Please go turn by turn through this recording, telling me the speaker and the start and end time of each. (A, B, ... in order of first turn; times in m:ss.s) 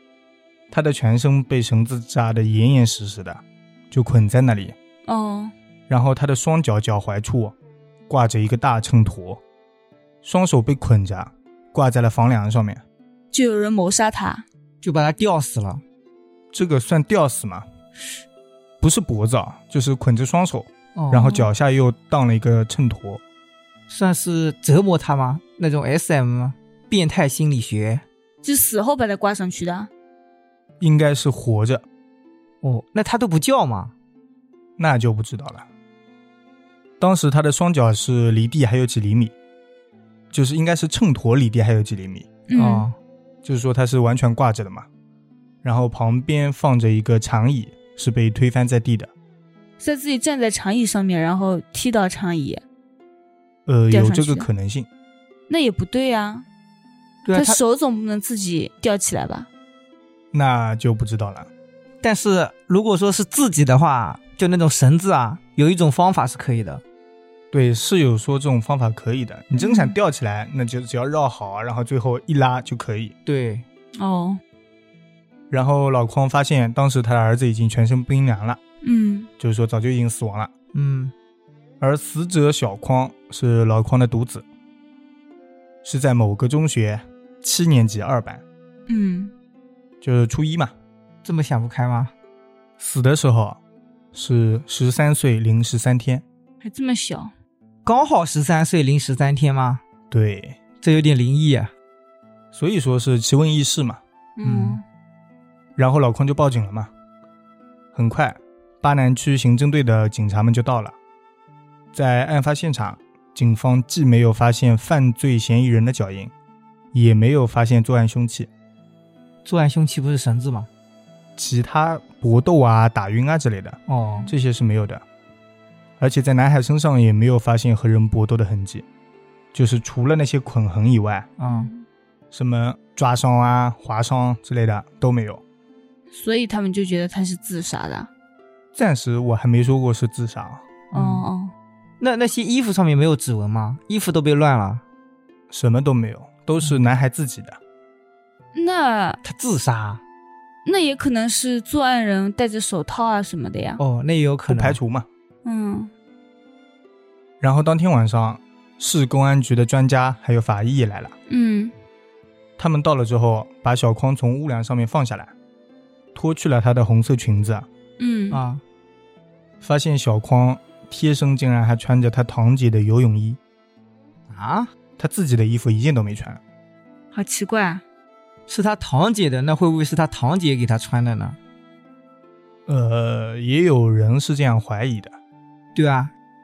0:00.7-0:04.7 A
0:05.1-0:05.5 B
0:05.9-0:07.5 A
0:08.1-0:09.4 A
0:10.2-0:12.8 A
0:13.3-0:14.4 B
0:14.8-0:15.8 C
0:16.5-0:17.6 A
0:18.8-0:23.2 A
0:20.9-0:21.4 C
0:23.9-0:28.0 C
0:28.4-0:29.9 B
0:30.8-0:31.8 A
0:32.6-0:33.9 C
0:34.8-0:35.6 A
0:37.0-0:39.3 A
0:40.3-0:42.3 A
0:42.5-0:42.9 B
0:42.5-0:43.0 C
0:43.4-0:44.9 A
0:45.6-0:49.1 A
0:49.8-0:52.6 B
0:53.6-0:54.9 A
0:53.9-0:54.5 B
0:55.5-0:56.5 B
0:57.2-0:57.6 C
0:57.3-0:59.5 B
1:00.3-1:01.5 A
1:02.0-1:06.8 C
1:07.5-1:13.1 A
1:09.6-1:10.0 B
1:13.2-1:13.6 C
1:14.0-1:14.4 B
1:15.5-1:18.6 A
1:18.8-1:19.3 B
1:19.4-1:20.5 A
1:20.7-1:21.1 C
1:21.8-1:24.4 A
1:25.8-1:28.4 A
1:28.9-1:29.3 B
1:30.0-1:30.7 A
1:31.2-1:32.1 C
1:32.8-1:33.6 A
1:34.1-1:36.2 A
1:36.6-1:37.3 B
1:37.8-1:39.8 C
1:40.1-1:40.6 A
1:40.8-1:41.7 C
1:42.5-1:44.0 A
1:44.4-1:44.8 B
1:44.4-1:44.8 C
1:45.8-1:46.9 A
1:47.9-1:50.9 A
1:51.9-1:56.3 A
1:56.9-1:58.5 A
1:59.4-2:00.7 C
2:01.4-2:05.0 A
2:03.9-2:04.3 C
2:06.0-2:08.8 A
2:09.5-2:11.3 A
2:11.4-2:11.7 C
2:11.4-2:11.8 B
2:12.3-2:15.4 A
2:16.1-2:18.1 B
2:18.7-2:20.6 A
2:20.9-2:21.2 C
2:20.9-2:21.5 B
2:22.0-2:24.8 C
2:25.5-2:27.6 A
2:28.5-2:29.2 B
2:29.2-2:30.0 C
2:30.6-2:33.8 B
2:33.8-2:34.8 C
2:34.5-2:35.1 A
2:35.4-2:35.9 B
2:37.4-2:41.1 A
2:41.3-2:41.7 B
2:42.6-2:45.3 A
2:46.1-2:47.6 A
2:48.0-2:48.4 B
2:48.3-2:48.6 C
2:49.6-2:53.4 A
2:54.3-2:54.7 C
2:55.0-2:56.4 A
2:57.1-2:57.8 B
2:58.5-3:01.4 C
3:02.7-3:05.2 A
3:05.7-3:06.1 C